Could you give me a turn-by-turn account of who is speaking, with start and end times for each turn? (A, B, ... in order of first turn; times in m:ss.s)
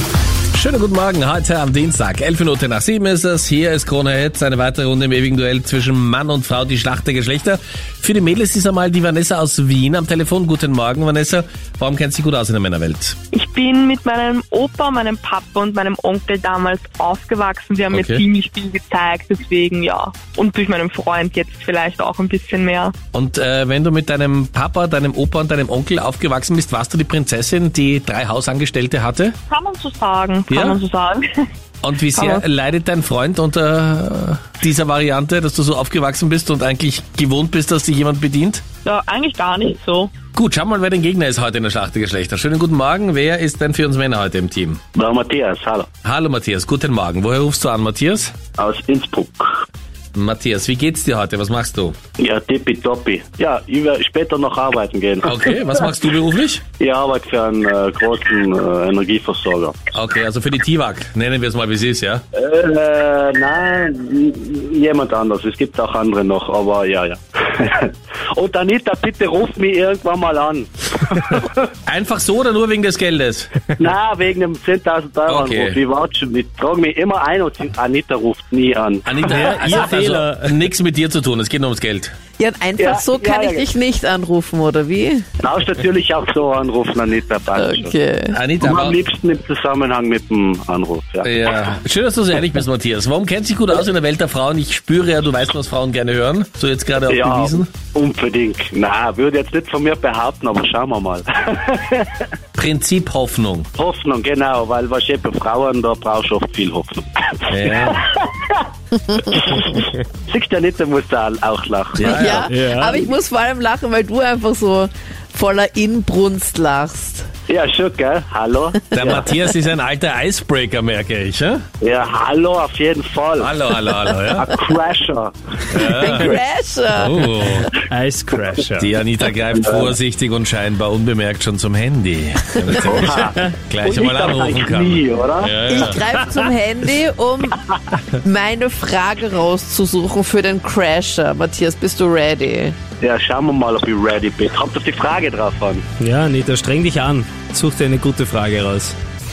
0:00.5-0:13.2 A
0:13.3-0:22.9 B
0:17.9-0:18.2 A
0:23.1-0:29.4 A
0:29.5-0:31.4 B
0:30.5-0:30.8 A
0:31.8-0:38.6 A
0:32.1-0:32.4 B
0:38.8-0:40.2 B
0:40.3-0:44.8 A
0:45.0-0:45.9 C
0:46.0-0:48.3 A
0:48.6-0:49.5 C
0:50.1-0:52.0 A
0:52.2-0:55.6 C
0:55.2-0:56.6 A
0:56.8-0:59.8 C
0:59.9-1:02.2 A
1:02.4-1:11.7 C
1:11.8-1:13.5 A
1:13.8-1:19.8 C
1:15.3-1:15.8 A
1:19.0-1:22.1 A
1:19.3-1:20.6 D
1:22.4-1:25.2 E
1:22.8-1:23.6 C
1:25.4-1:27.9 C
1:27.5-1:28.4 E
1:28.3-1:29.0 A
1:28.6-1:31.4 C
1:31.2-1:37.7 A
1:37.0-1:42.2 C
1:42.5-1:43.7 A
1:43.8-1:48.6 C
1:47.5-1:48.0 A
1:49.1-1:49.5 E
1:49.3-1:52.2 C
1:52.0-1:52.5 A
1:52.0-1:57.3 E
1:52.5-1:53.0 D
1:57.5-1:59.3 C
1:58.9-2:01.6 A
2:01.8-2:03.6 C
2:03.4-2:04.5 A
2:04.4-2:05.7 C
2:05.7-2:06.3 A
2:05.8-2:07.7 E
2:06.9-2:07.7 A
2:07.8-2:08.9 D
2:08.8-2:16.0 A
2:09.6-2:09.9 C
2:12.8-2:15.5 C
2:15.7-2:17.6 E
2:18.1-2:22.8 E
2:23.0-2:25.8 C
2:26.0-2:28.9 D